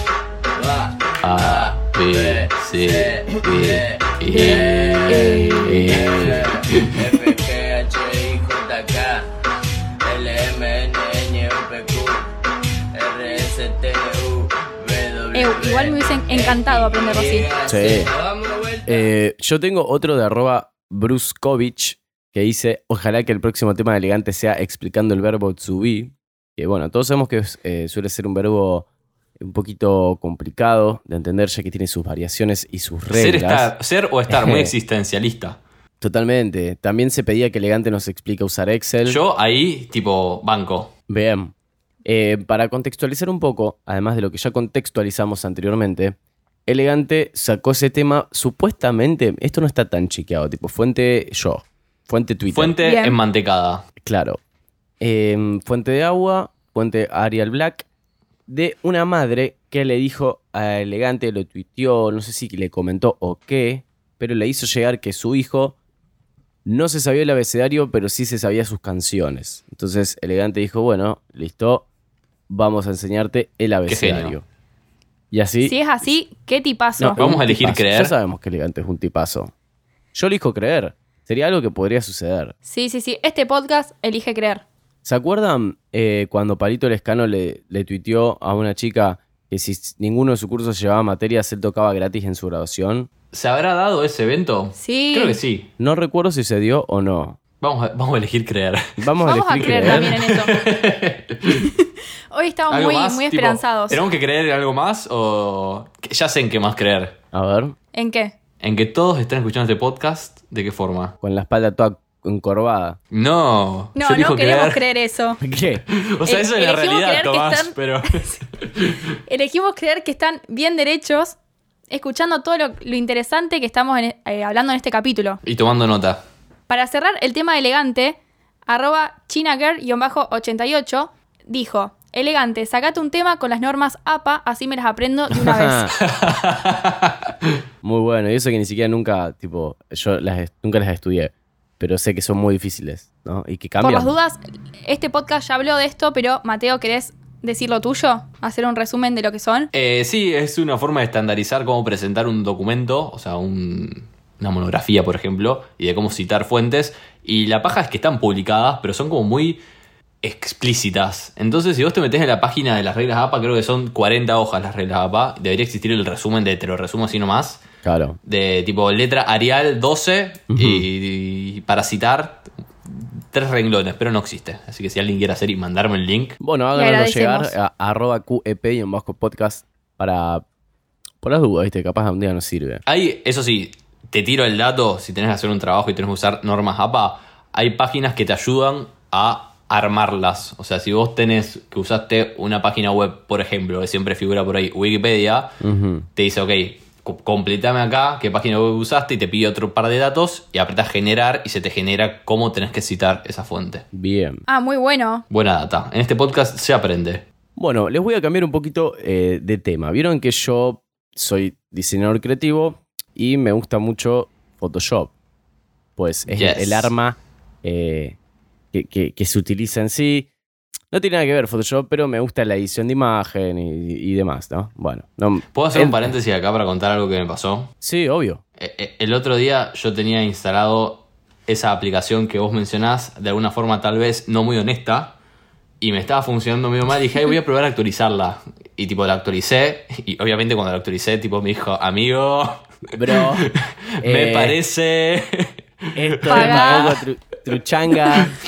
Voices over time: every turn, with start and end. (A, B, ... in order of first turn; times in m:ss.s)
0:00.5-0:09.2 A
0:01.2-0:06.9 B
0:05.1-0:05.6 C
0:05.6-0:06.5 D
0:10.0-0:12.3 A
0:12.9-0:19.1 A
0:15.3-0:17.5 C
0:17.7-0:18.1 D
0:18.8-0:28.9 D
0:29.4-0:33.7 D
0:33.1-0:35.6 B
0:34.3-0:34.7 D
0:36.0-0:39.2 D
0:39.0-0:40.9 B
0:41.1-0:41.5 D
0:42.0-0:46.1 D
0:46.6-0:52.8 D
0:52.5-0:53.8 B
0:52.8-0:53.2 C
0:54.0-0:54.4 D
0:55.0-0:57.8 D
0:58.5-1:05.8 D
1:06.6-1:11.8 D
1:12.5-1:14.4 D
1:13.8-1:14.3 B
1:15.3-1:16.1 D
1:15.6-1:17.2 C
1:17.0-1:19.5 D
1:17.2-1:18.1 B
1:20.1-1:22.5 D
1:22.6-1:24.6 C
1:25.0-1:33.1 D
1:33.3-1:35.7 B
1:34.7-1:35.4 C
1:35.8-1:37.4 D
1:37.6-1:39.0 B
1:39.0-1:40.1 D
1:39.2-1:40.5 C
1:39.5-1:41.7 B
1:42.3-1:44.0 C
1:42.7-1:47.2 B
1:47.3-1:47.8 D
1:47.9-1:48.3 C
1:48.6-1:51.1 B
1:51.2-1:53.0 D
1:53.1-1:54.8 B
1:54.0-1:55.4 C
1:55.4-1:55.8 D
1:55.9-1:59.0 B
1:56.2-1:58.3 C
1:59.3-2:01.4 C
2:01.9-2:05.4 C
2:05.4-2:06.2 B
2:06.7-2:15.9 C
2:15.4-2:15.9 D
2:16.0-2:17.2 B
2:17.8-2:24.1 D
2:23.8-2:29.7 C
2:29.7-2:39.6 B
2:40.2-2:47.6 B
2:47.8-2:48.2 D
2:48.2-2:56.4 B
2:50.5-2:50.8 D
2:56.4-3:00.4 D
2:56.7-2:57.5 C
3:01.2-3:02.8 D
3:02.8-3:15.6 B
3:15.6-3:16.1 D
3:16.2-3:23.8 B
3:23.9-3:24.4 D
3:24.5-3:25.2 C
3:25.3-3:27.2 B
3:27.6-3:35.1 D
3:36.0-3:38.2 D
3:36.3-3:36.9 B
3:38.7-3:40.3 D
3:40.9-3:46.1 D
3:45.5-3:47.7 B
3:47.8-3:48.4 D
3:48.6-3:55.2 B
3:55.8-4:07.0 B
4:02.9-4:03.5 D
4:04.0-4:04.6 D
4:06.0-4:08.3 D
4:06.2-4:07.0 C